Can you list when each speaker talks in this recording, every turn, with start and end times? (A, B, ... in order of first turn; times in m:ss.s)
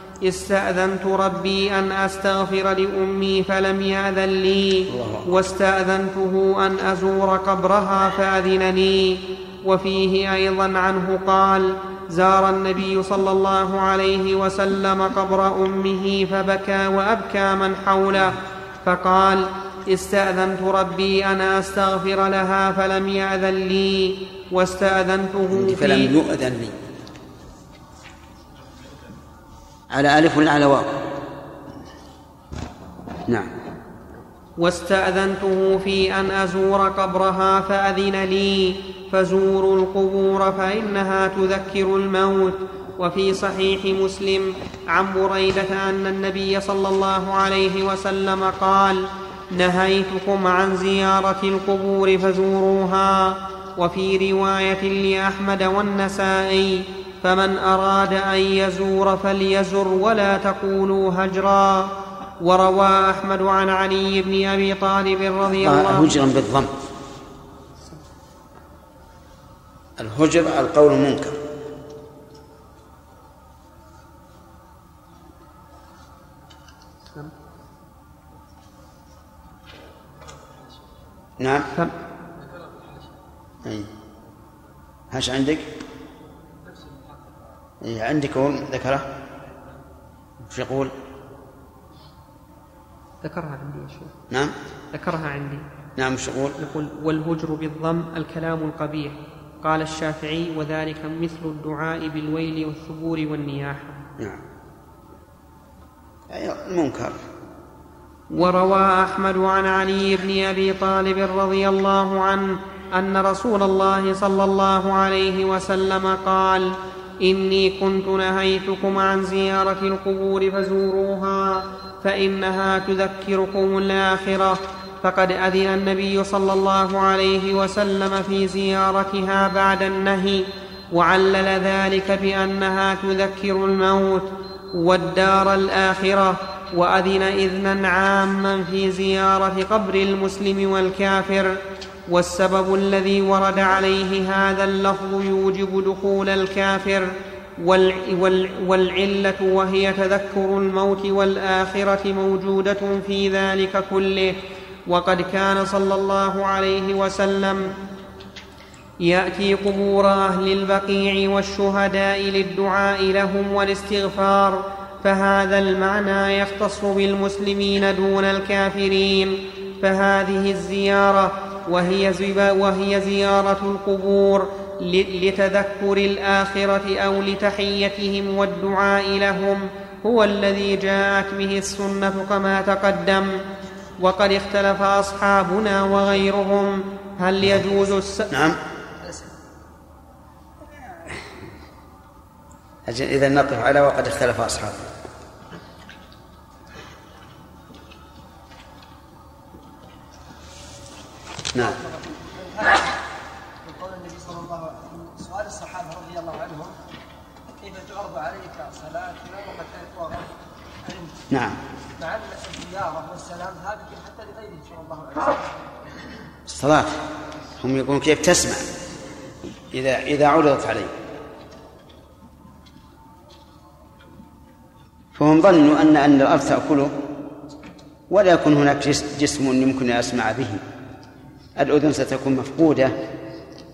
0:00.2-0:26.1 A
0:04.9-0:05.3 B
0:25.5-0:26.8 B
0:29.9-0:31.1 B
0:34.6-1:06.2 A
1:05.6-1:06.7 B
1:10.0-1:11.4 B
1:21.4-1:21.7 B
1:22.4-1:23.1 C
1:25.1-1:25.7 B
1:26.6-1:27.5 C
1:27.8-1:29.1 B
1:30.5-1:30.9 B
1:33.2-1:34.1 A
1:34.9-1:35.6 A
1:36.0-1:36.6 B
1:36.6-1:44.0 A
1:46.3-1:47.2 B
1:48.3-2:34.3 A
2:34.9-2:37.7 A
2:39.0-3:03.3 A
3:04.0-3:08.3 A
3:08.3-3:08.6 B
3:12.9-3:14.9 B
3:21.6-3:23.0 C
3:23.6-3:26.8 C
3:27.6-3:30.3 C
3:30.8-3:31.2 C
3:31.3-3:31.6 B
3:31.9-3:35.5 C
3:36.5-3:37.0 B
3:37.6-3:38.6 B
3:39.7-3:40.9 B
3:45.1-3:46.9 B
3:48.1-3:50.6 B
3:51.6-3:52.9 B